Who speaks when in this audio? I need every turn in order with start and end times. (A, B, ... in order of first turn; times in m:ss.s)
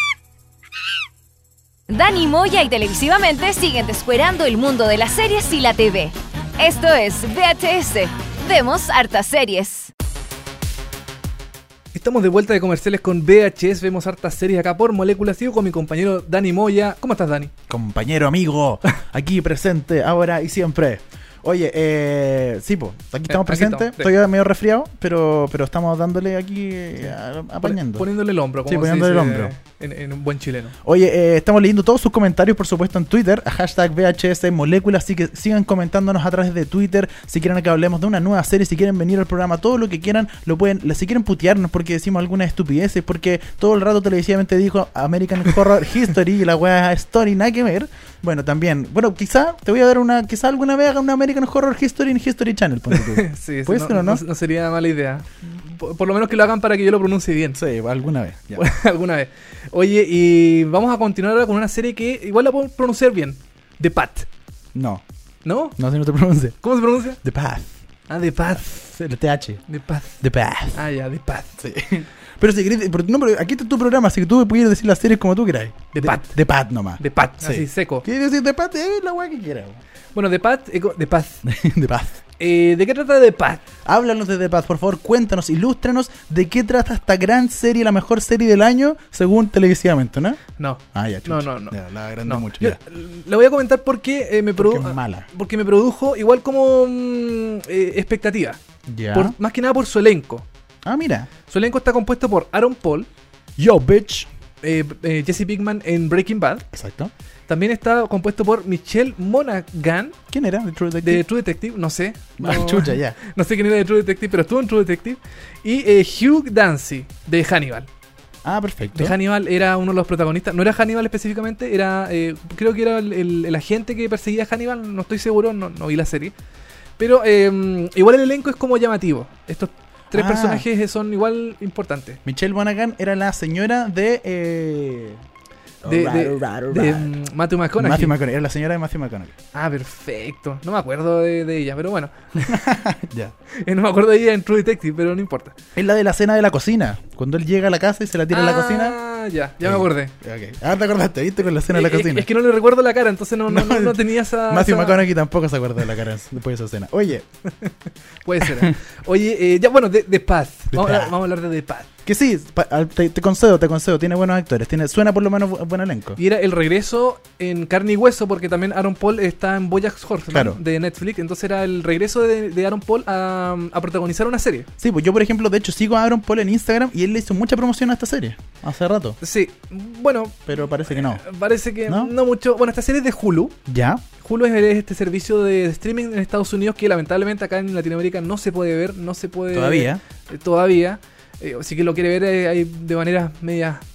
0:01.9-0:09.9 A
0:11.9-0:17.5 B
0:17.7-0:28.1 C
0:23.3-0:24.1 B
0:27.6-0:30.7 B
0:28.6-0:29.5 C
0:30.8-0:54.2 C
0:52.9-0:57.6 B
0:57.6-0:58.7 C
0:58.5-1:04.3 B
1:04.7-1:05.0 C
1:05.4-1:05.8 B
1:05.8-1:06.6 C
1:06.6-1:07.2 B
1:07.1-1:07.7 C
1:08.1-1:08.9 B
1:08.5-1:09.6 C
1:09.7-1:11.6 B
1:10.2-1:10.8 C
1:11.6-1:19.8 C
1:15.9-1:16.4 B
1:17.0-1:18.0 B
1:20.1-1:21.4 B
1:21.4-1:22.2 C
1:22.4-1:23.6 B
1:23.8-1:30.4 C
1:30.6-1:38.6 B
1:30.9-1:32.8 C
1:34.6-1:35.3 C
1:38.9-1:39.3 C
1:39.1-1:40.4 B
1:40.8-1:41.3 C
1:41.5-1:43.1 B
1:43.6-1:44.3 C
1:44.6-1:46.6 B
1:46.7-1:47.1 C
1:47.5-1:50.2 B
1:50.3-1:51.2 C
1:51.0-1:57.9 B
1:52.4-1:53.2 C
1:58.4-1:59.2 C
1:58.9-2:06.3 B
2:07.0-2:12.2 B
2:10.1-2:10.6 C
2:12.2-2:15.2 C
2:15.8-2:17.1 C
2:15.8-2:18.1 B
2:17.8-2:19.3 C
2:19.5-2:22.6 B
2:22.4-2:23.3 C
2:23.5-2:25.5 B
2:25.7-2:29.0 C
2:28.3-2:30.1 B
2:29.6-2:32.3 C
2:31.7-2:35.0 B
2:33.5-2:37.2 C
2:37.5-2:41.9 B
2:38.4-2:38.7 C
2:40.7-2:41.1 C
2:42.0-2:46.2 C
2:46.2-2:54.7 B
2:50.3-2:50.6 C
2:54.8-2:59.2 C
2:59.2-3:03.5 B
3:00.5-3:01.2 C
3:01.8-3:02.1 C
3:03.7-3:04.0 C
3:04.2-3:13.8 B
3:09.5-3:10.0 C